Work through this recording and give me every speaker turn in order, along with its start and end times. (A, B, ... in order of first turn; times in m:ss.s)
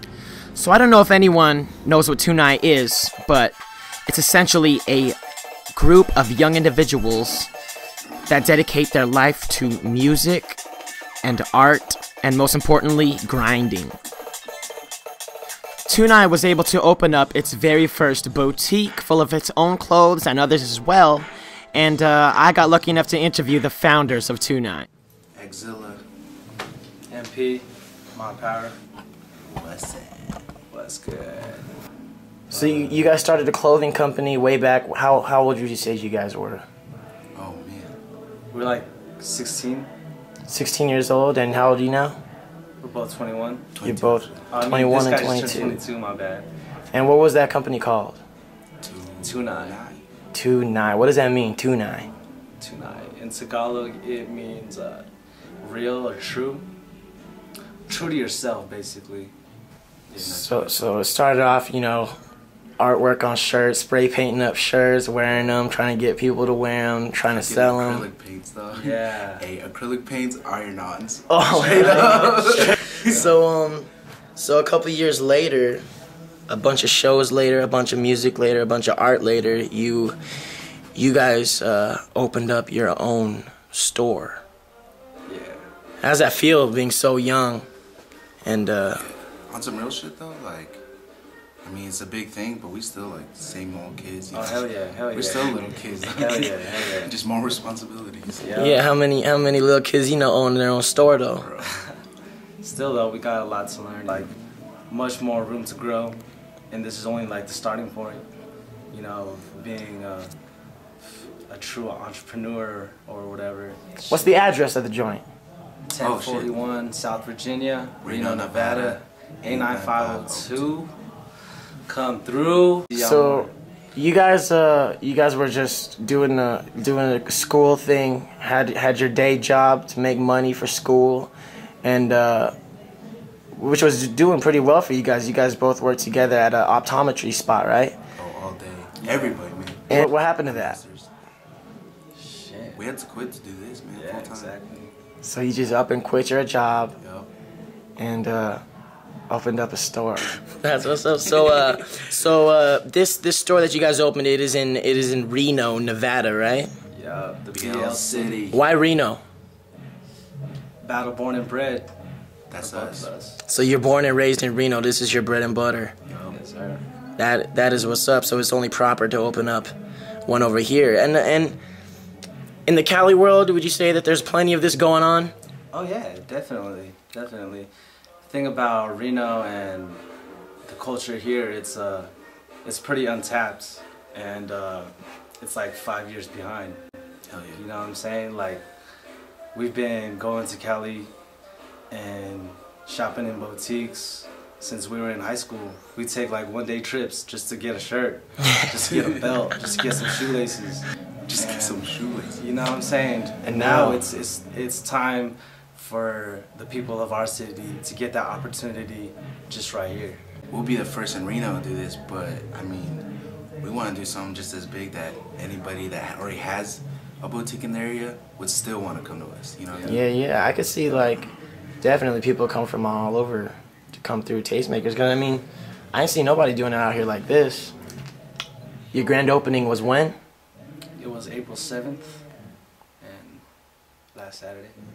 0:00.6-0:05.2 A
0:05.7-0:07.5 A
0:08.3-0:10.6 A
0:11.2-0:14.0 A
0:15.9-0:24.9 A
0:25.4-0:26.0 B
0:27.1-0:28.8 C
0:29.5-0:30.4 B
0:30.7-0:31.7 C
0:32.5-0:33.0 C
0:32.5-0:36.6 A
0:37.3-0:37.9 B
0:38.5-0:39.9 C
0:40.5-0:42.2 A
0:42.8-0:43.6 C
0:43.7-0:44.5 B
0:43.8-0:45.8 A
0:44.5-0:46.5 C
0:46.9-0:48.2 A
0:48.8-0:50.0 B
0:49.2-0:49.8 C
0:50.3-0:52.1 A
0:52.6-0:55.0 C
0:55.6-0:56.6 C
0:57.9-0:59.3 C
1:00.1-1:00.6 C
1:00.2-1:02.1 A
1:00.4-1:00.9 B
1:02.8-1:08.1 A
1:07.3-1:13.2 B
1:08.7-1:09.4 C
1:11.3-1:15.8 A
1:11.6-1:13.3 C
1:16.5-1:20.2 A
1:20.9-1:24.4 A
1:25.3-1:25.6 C
1:26.0-1:27.6 A
1:28.4-1:29.0 A
1:28.9-1:30.8 B
1:31.6-1:38.7 B
1:34.3-1:37.1 C
1:38.4-1:38.8 C
1:38.5-1:41.5 A
1:41.4-1:41.7 B
1:42.6-1:44.3 C
1:44.9-1:48.2 C
1:48.9-1:50.3 C
1:51.5-1:54.3 C
1:54.1-1:55.2 A
1:55.9-2:00.9 C
1:56.0-1:56.5 B
1:58.0-2:00.8 B
2:01.9-2:03.5 C
2:02.9-2:11.3 A
2:11.8-2:12.5 A
2:13.5-2:18.0 A
2:18.1-2:21.1 B
2:19.0-2:19.4 C
2:19.9-2:20.8 A
2:22.2-2:22.8 C
2:22.8-2:24.5 B
2:23.9-2:24.9 C
2:25.2-2:27.0 A
2:27.0-2:27.3 B
2:28.0-2:28.6 A
2:29.3-2:36.7 A
2:31.2-2:31.8 B
2:36.9-2:38.5 C
2:37.5-2:38.6 B
2:38.5-2:39.2 A
2:40.8-2:41.9 C
2:42.5-2:43.1 B
2:42.6-2:43.4 C
2:43.5-2:45.9 A
2:46.1-2:46.3 B
2:46.3-2:46.8 C
2:47.2-2:49.7 A
2:50.2-2:51.6 A
2:52.7-2:55.3 A
2:55.7-2:57.7 C
2:58.2-3:00.0 C
3:00.6-3:02.1 C
3:02.6-3:06.8 C
3:07.3-3:07.6 B
3:07.5-3:08.6 C
3:09.5-3:11.1 C
3:11.9-3:20.8 C
3:18.9-3:19.2 B
3:21.3-3:22.4 B
3:21.4-3:30.2 C
3:23.4-3:24.0 A
3:30.5-3:33.0 B
3:33.6-3:40.0 B
3:39.7-3:40.0 C
3:39.8-3:41.3 A
3:41.8-3:47.7 A
3:48.9-3:50.2 A
3:51.0-3:52.2 C
3:53.0-3:53.4 C
3:54.1-3:54.7 C